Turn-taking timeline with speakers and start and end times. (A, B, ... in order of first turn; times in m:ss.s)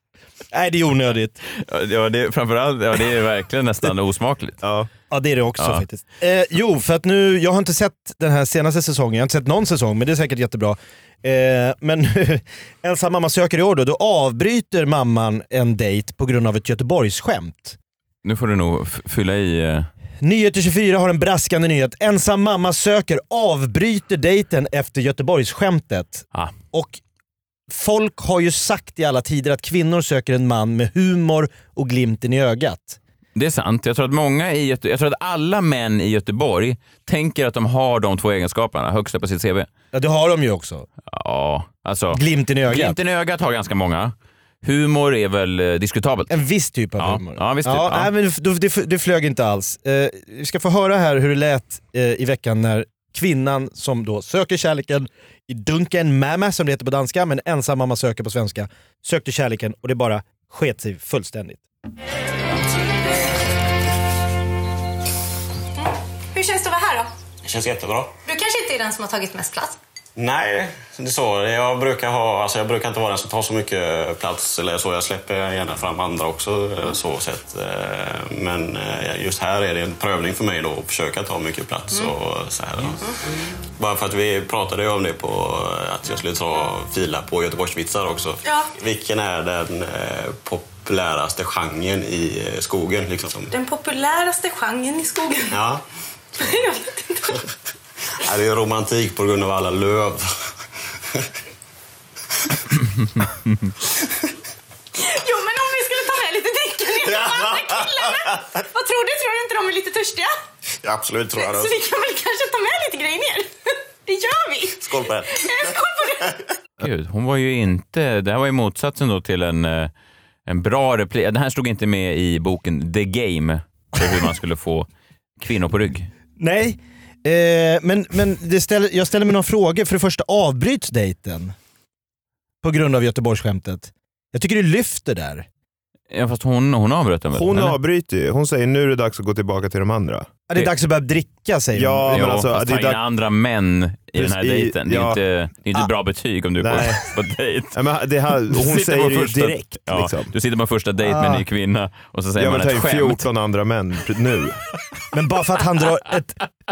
0:00.5-0:01.4 A
0:01.5-0:04.6 B
0:04.6-0:04.9 C
0:05.1-0:17.8 A
0:18.2-0:19.9 B
0:20.2-0:27.0 A
0:27.7-0:33.0 A
0:33.4-0:39.7 B
0:39.9-0:40.9 A
0:41.1-0:46.4 B
0:42.1-0:43.0 A
0:46.3-1:01.6 A
0:47.0-0:48.1 B
1:05.8-1:07.1 D
1:07.4-1:08.2 E
1:08.2-1:09.8 D
1:10.2-1:23.1 E
1:23.7-1:33.5 E
1:28.4-1:28.7 D
1:33.5-1:35.6 D
1:35.5-1:35.8 E
1:36.4-1:37.4 D
1:38.2-1:40.3 E
1:45.0-1:50.4 D
1:47.1-1:47.8 E
1:50.8-1:51.7 E
1:51.3-1:53.5 D
1:54.0-1:56.3 D
1:54.8-1:55.4 E
1:56.8-1:59.9 B
2:00.5-2:04.9 B
2:05.4-2:06.1 B
2:06.4-2:11.6 A
2:12.6-2:15.5 A
2:16.1-2:17.8 B
2:17.3-2:20.4 C
2:20.5-2:22.2 A
2:21.8-2:23.0 C
2:22.1-2:27.8 B
2:24.2-2:25.2 C
2:26.6-2:27.1 C
2:27.7-2:30.3 C
2:28.5-2:33.3 B
2:31.0-2:31.4 A
2:32.4-2:34.6 C
2:35.1-2:36.4 A